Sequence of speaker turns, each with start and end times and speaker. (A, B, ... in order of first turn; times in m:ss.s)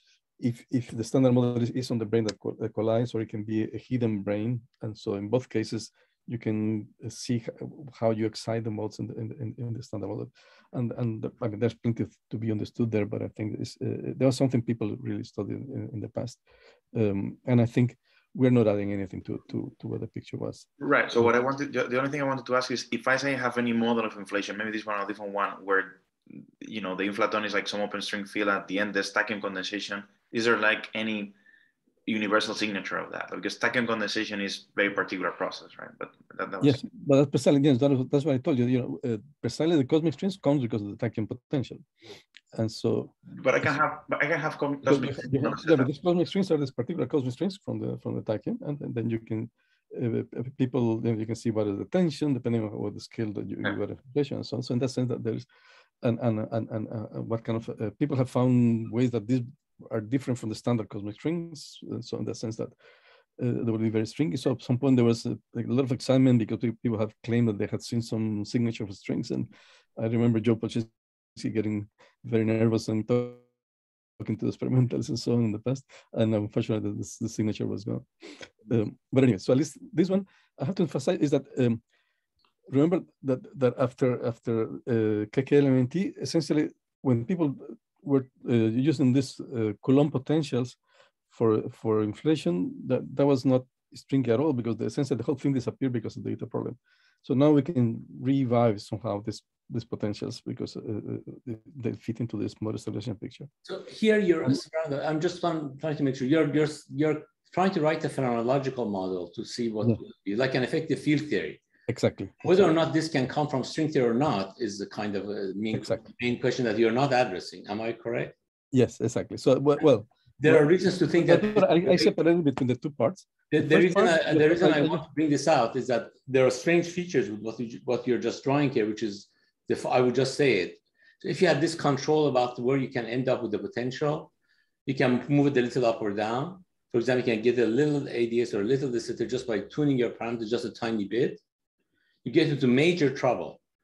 0:00.4-0:16.4 A
0:16.9-0:20.7 A
0:20.8-0:31.4 B
0:32.1-0:36.8 B
0:36.6-0:41.8 A
0:42.5-0:43.2 A
0:43.3-0:45.9 B
0:44.8-0:55.5 A
0:56.0-1:02.7 A
1:03.4-1:13.4 A
1:14.2-1:18.1 A
1:18.7-1:21.8 A
1:22.7-1:30.8 A
1:31.3-1:43.5 A
1:43.7-1:51.6 C
1:51.9-1:52.7 A
1:52.4-1:58.3 C
1:55.7-1:56.0 A
1:58.7-2:05.1 A
2:00.4-2:02.1 C
2:03.5-2:14.3 C
2:14.9-2:21.4 C
2:22.2-2:23.6 C